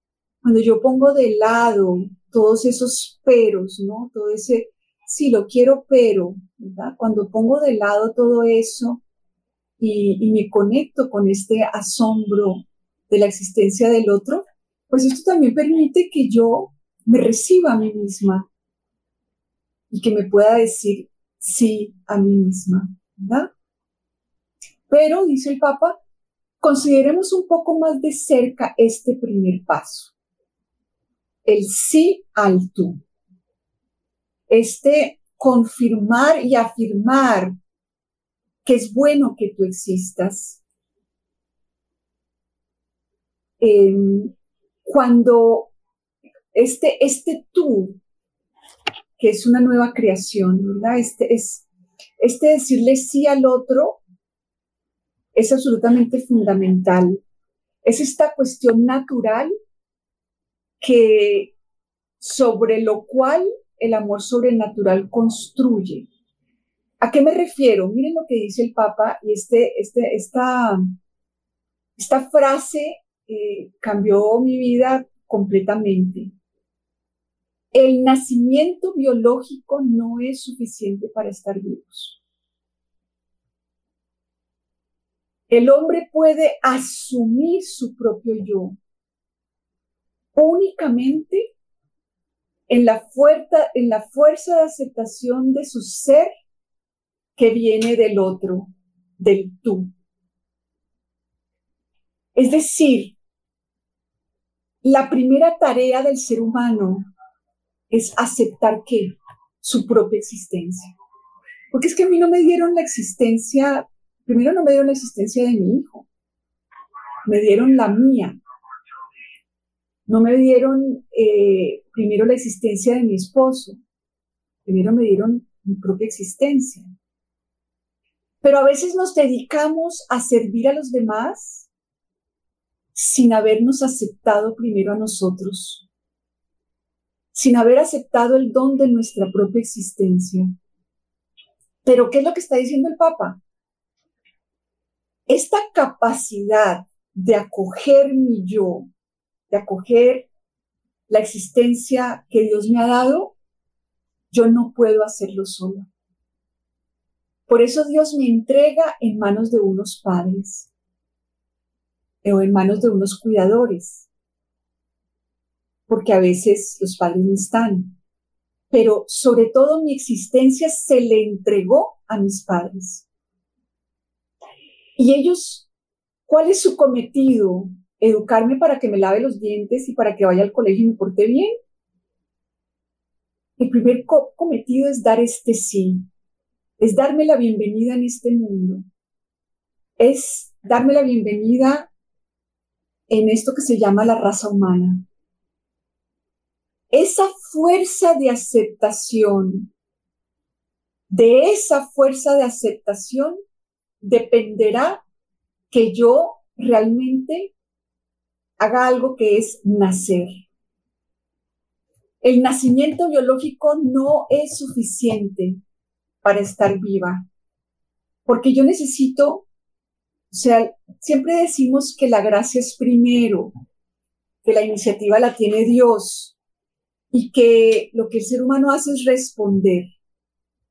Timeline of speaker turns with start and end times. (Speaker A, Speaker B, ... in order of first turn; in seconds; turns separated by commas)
Speaker A: 0.4-9.0, Speaker A: 9.8-18.5, Speaker A: 19.9-23.5, Speaker A: 24.9-26.0, Speaker A: 26.6-30.1, Speaker A: 31.4-33.0, Speaker A: 34.5-37.5, Speaker A: 38.6-40.6, Speaker A: 43.6-44.3, Speaker A: 44.8-45.7, Speaker A: 46.5-48.0, Speaker A: 49.2-51.6, Speaker A: 52.2-54.0, Speaker A: 55.3-57.2, Speaker A: 57.8-59.5, Speaker A: 60.8-61.5, Speaker A: 62.2-66.0, Speaker A: 67.0-70.8, Speaker A: 72.0-76.3, Speaker A: 77.7-82.2, Speaker A: 85.5-88.8, Speaker A: 90.3-91.5, Speaker A: 92.7-96.3, Speaker A: 97.3-99.9, Speaker A: 102.3-103.1, Speaker A: 104.8-107.1, Speaker A: 107.9-110.9, Speaker A: 111.7-116.0, Speaker A: 117.2-118.4, Speaker A: 120.1-123.8, Speaker A: 124.6-126.9, Speaker A: 128.4-131.7, Speaker A: 132.9-135.8, Speaker A: 137.3-140.5, Speaker A: 141.8-143.4, Speaker A: 145.3-148.9, Speaker A: 149.5-150.3, Speaker A: 151.1-153.3, Speaker A: 154.3-155.9, Speaker A: 157.5-160.7, Speaker A: 162.2-164.1, Speaker A: 165.9-167.9, Speaker A: 168.7-173.0, Speaker A: 175.0-175.7, Speaker A: 176.3-181.5, Speaker A: 183.6-186.0, Speaker A: 186.8-188.8, Speaker A: 190.0-191.9, Speaker A: 193.1-195.0, Speaker A: 196.9-199.7, Speaker A: 201.1-203.4, Speaker A: 204.0-205.0, Speaker A: 205.7-207.5, Speaker A: 208.6-210.4, Speaker A: 212.2-215.6, Speaker A: 216.2-217.2, Speaker A: 218.2-219.4, Speaker A: 220.3-223.5, Speaker A: 224.4-226.3, Speaker A: 227.1-229.9